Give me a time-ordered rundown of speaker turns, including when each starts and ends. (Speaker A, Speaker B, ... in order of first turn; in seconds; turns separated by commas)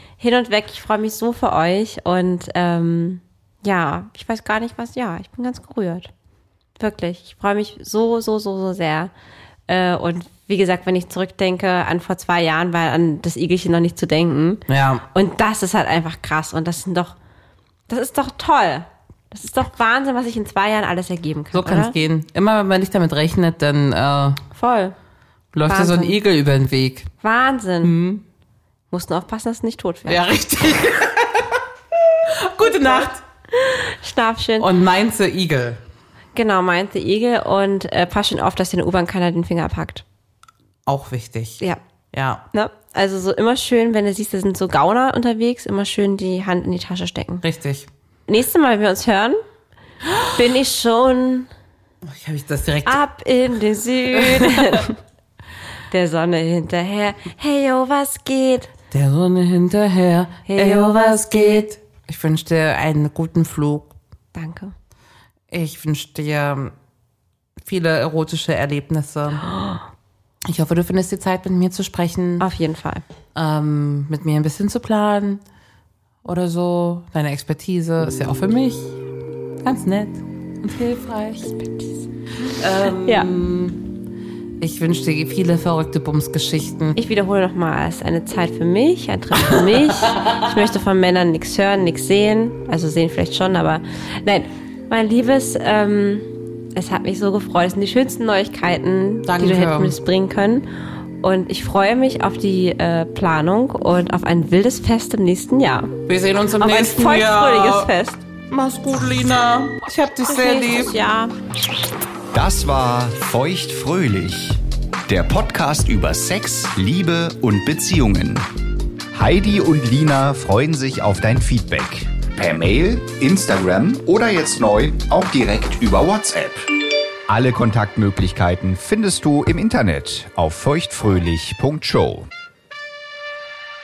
Speaker A: 0.2-6.1, Speaker A: 6.8-9.1, Speaker A: 9.7-17.2, Speaker B: 14.7-15.0, Speaker A: 17.9-21.9, Speaker B: 21.5-24.4, Speaker A: 24.5-24.9, Speaker B: 25.5-27.1, Speaker A: 25.7-26.2, Speaker A: 27.2-27.9, Speaker B: 27.8-28.2, Speaker A: 28.9-30.2, Speaker B: 30.1-33.2, Speaker A: 32.6-34.7, Speaker B: 34.6-35.8, Speaker A: 36.3-40.0, Speaker B: 40.9-41.6, Speaker B: 42.1-42.5, Speaker A: 42.5-47.4, Speaker B: 47.4-47.9, Speaker A: 48.3-49.4, Speaker A: 50.2-51.5, Speaker B: 52.0-53.0, Speaker A: 52.9-55.0, Speaker B: 54.3-54.8, Speaker A: 55.9-58.7, Speaker B: 58.9-63.9, Speaker A: 60.5-61.3, Speaker A: 64.3-64.7, Speaker B: 65.5-66.7, Speaker B: 67.6-69.5, Speaker A: 69.5-69.8, Speaker B: 70.5-72.5, Speaker A: 72.4-73.0, Speaker B: 73.3-75.4, Speaker B: 76.2-79.0, Speaker B: 79.6-81.5, Speaker A: 81.5-83.3, Speaker B: 82.6-83.9, Speaker B: 84.6-87.0, Speaker A: 87.0-100.7, Speaker B: 89.4-90.4, Speaker B: 99.3-100.0, Speaker A: 101.2-106.0, Speaker B: 106.1-107.9, Speaker A: 106.6-108.2, Speaker B: 108.5-111.0, Speaker A: 110.3-111.3, Speaker C: 112.3-118.5, Speaker C: 119.1-126.7, Speaker C: 127.3-132.3